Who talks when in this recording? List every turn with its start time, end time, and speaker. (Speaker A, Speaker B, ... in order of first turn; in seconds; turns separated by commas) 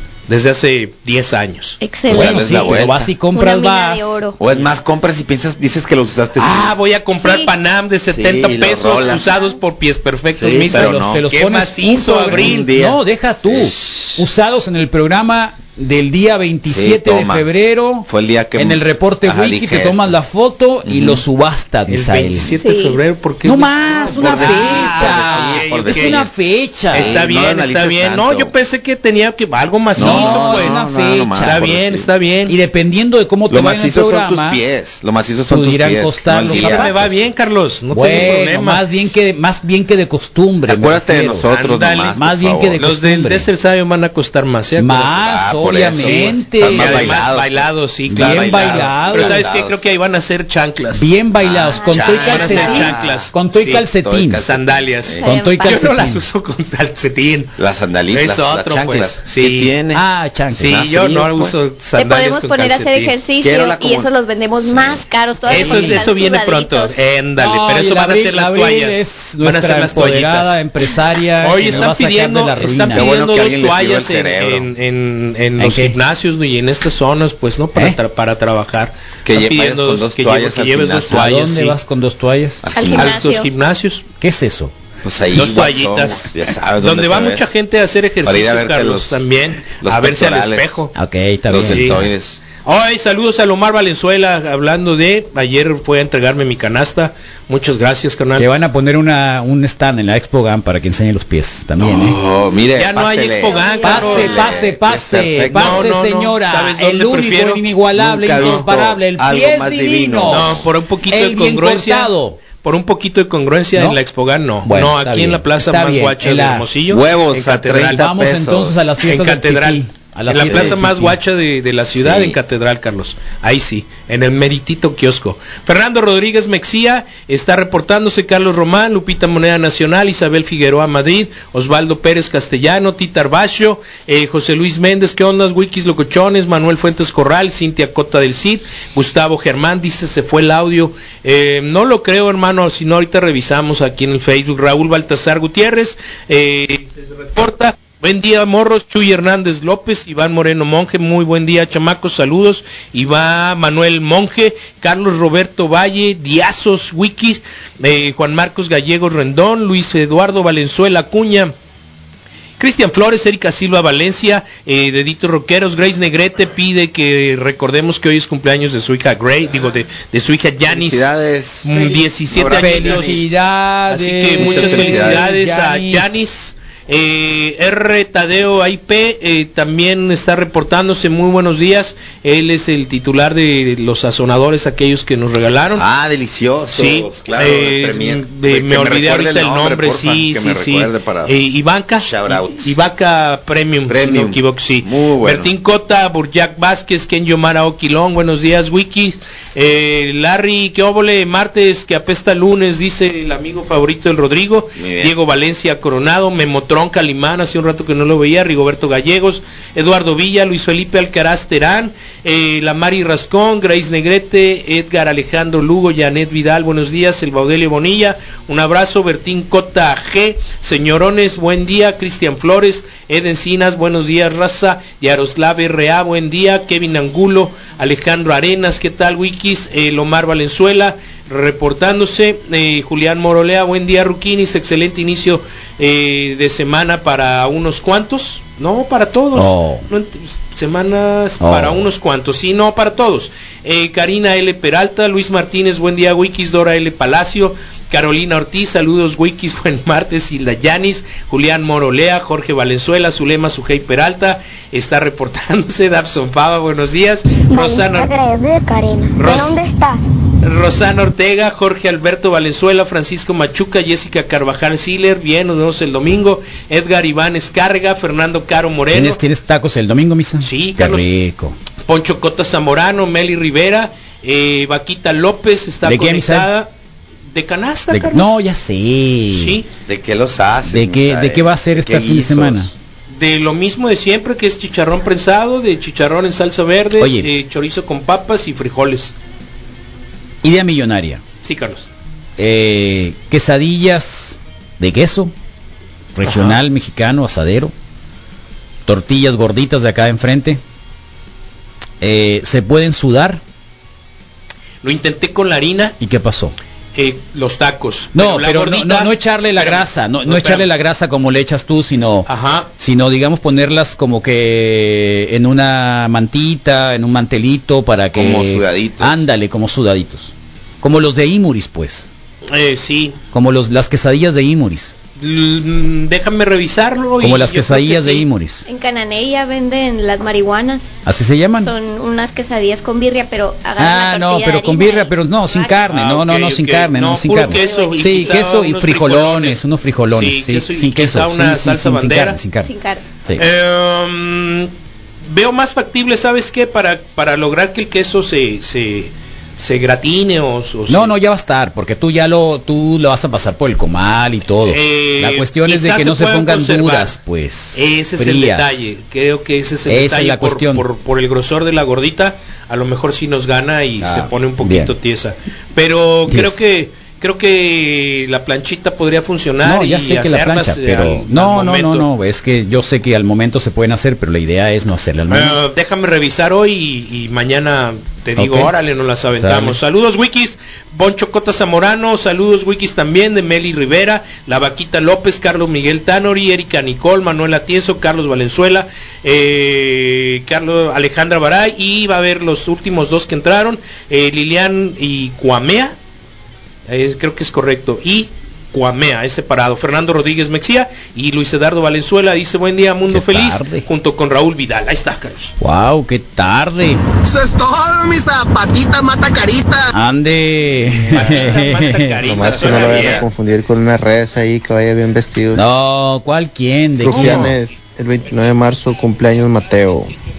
Speaker A: 0.3-1.8, Speaker B: 1.8-2.8, Speaker C: 2.1-3.1, Speaker D: 2.1-4.2, Speaker A: 2.4-3.1, Speaker B: 3.3-4.4, Speaker C: 4.4-6.8, Speaker A: 6.4-12.7, Speaker B: 7.2-7.5, Speaker C: 8.1-9.3, Speaker B: 9.2-9.6, Speaker C: 10.3-11.2, Speaker D: 10.7-22.6, Speaker C: 12.2-14.1, Speaker C: 16.7-17.5, Speaker C: 18.1-20.2, Speaker C: 20.9-21.2, Speaker A: 21.9-26.2, Speaker B: 22.6-23.0, Speaker D: 23.4-27.2, Speaker C: 23.9-26.3, Speaker A: 26.9-30.9, Speaker C: 26.9-28.5, Speaker C: 29.9-32.1, Speaker D: 30.0-31.6, Speaker A: 31.4-32.6, Speaker D: 32.5-34.6, Speaker C: 33.5-37.0, Speaker D: 35.5-37.1, Speaker A: 36.4-38.8, Speaker D: 37.9-41.5, Speaker C: 40.7-42.8, Speaker A: 41.5-42.2, Speaker D: 42.1-43.5, Speaker A: 42.8-51.1, Speaker D: 44.8-47.3, Speaker C: 45.1-49.8, Speaker D: 48.1-49.5, Speaker D: 50.9-54.4, Speaker C: 51.4-53.3, Speaker B: 51.7-52.8, Speaker A: 52.1-57.5, Speaker C: 54.0-55.2, Speaker B: 55.2-55.9, Speaker D: 55.2-56.2, Speaker C: 57.6-61.6, Speaker A: 58.1-59.8, Speaker D: 59.9-60.8, Speaker A: 60.6-63.2, Speaker B: 62.0-67.0, Speaker C: 63.4-64.1, Speaker C: 64.6-66.0, Speaker A: 65.5-70.6, Speaker D: 65.7-66.0, Speaker D: 67.4-73.2, Speaker A: 71.4-81.8, Speaker C: 72.9-74.7, Speaker D: 75.6-76.0, Speaker C: 79.2-81.3, Speaker D: 81.1-82.6, Speaker C: 82.6-83.3, Speaker B: 82.8-83.5, Speaker A: 82.9-84.0, Speaker D: 84.2-84.7, Speaker C: 85.0-87.5, Speaker A: 85.3-90.9, Speaker C: 88.2-90.9, Speaker D: 91.0-92.1, Speaker C: 91.5-92.4, Speaker A: 91.7-92.0, Speaker A: 92.6-98.5, Speaker D: 98.4-102.2, Speaker C: 101.8-105.9, Speaker A: 102.8-104.5, Speaker B: 103.5-104.3, Speaker D: 103.8-112.4, Speaker A: 105.5-107.6, Speaker C: 108.0-110.7, Speaker A: 108.3-108.7, Speaker A: 110.3-118.1, Speaker D: 114.7-116.7, Speaker C: 116.9-119.0, Speaker D: 117.9-121.2, Speaker A: 119.0-161.5, Speaker C: 120.4-120.8, Speaker C: 121.9-122.4, Speaker A: 162.6-171.1, Speaker C: 170.7-171.7, Speaker A: 171.6-173.2, Speaker D: 171.8-176.1, Speaker C: 172.3-173.2, Speaker A: 173.9-185.9, Speaker C: 174.3-175.3, Speaker C: 185.8-191.3, Speaker A: 186.7-258.1, Speaker C: 192.0-192.7, Speaker C: 193.9-195.5, Speaker C: 204.8-205.2, Speaker D: 239.3-239.9, Speaker D: 241.4-241.8, Speaker E: 257.5-260.1, Speaker A: 259.2-259.6, Speaker A: 260.4-269.2, Speaker D: 268.9-271.6, Speaker A: 270.4-271.1, Speaker A: 271.9-276.7, Speaker D: 275.9-276.5, Speaker A: 277.3-278.4, Speaker D: 277.9-279.6, Speaker A: 279.3-279.6, Speaker C: 279.9-282.7, Speaker D: 280.7-282.7, Speaker A: 283.1-289.1, Speaker D: 287.0-287.3, Speaker D: 290.4-291.2, Speaker A: 291.4-291.9, Speaker D: 292.4-295.3, Speaker D: 296.1-297.7, Speaker A: 296.2-296.6, Speaker D: 298.9-300.6, Speaker D: 302.0-303.4, Speaker A: 304.8-306.0, Speaker D: 306.0-306.6, Speaker A: 306.9-310.7, Speaker D: 308.2-322.1, Speaker A: 312.3-312.7, Speaker C: 318.1-319.2, Speaker A: 322.5-323.2, Speaker D: 323.3-324.9, Speaker A: 325.2-328.3, Speaker D: 327.2-328.6, Speaker B: 328.7-330.9, Speaker D: 331.1-331.7, Speaker B: 331.6-335.9, Speaker D: 333.8-342.7, Speaker A: 335.9-342.4, Speaker B: 337.5-338.4, Speaker B: 342.6-343.2, Speaker A: 343.4-344.7, Speaker A: 345.3-351.1, Speaker D: 350.9-358.9, Speaker A: 354.7-357.1, Speaker A: 357.8-372.1, Speaker D: 359.9-360.8, Speaker D: 364.0-364.9, Speaker D: 366.3-366.6, Speaker D: 369.6-375.6, Speaker A: 375.3-395.9, Speaker D: 378.4-378.7, Speaker D: 379.4-379.8, Speaker A: 396.9-405.6, Speaker D: 403.1-403.9, Speaker D: 405.6-407.0, Speaker F: 407.3-409.9, Speaker D: 409.9-412.2, Speaker A: 411.1-413.3, Speaker G: 412.2-415.6, Speaker C: 412.3-413.2, Speaker D: 415.5-417.6, Speaker G: 417.0-420.1, Speaker A: 417.1-417.6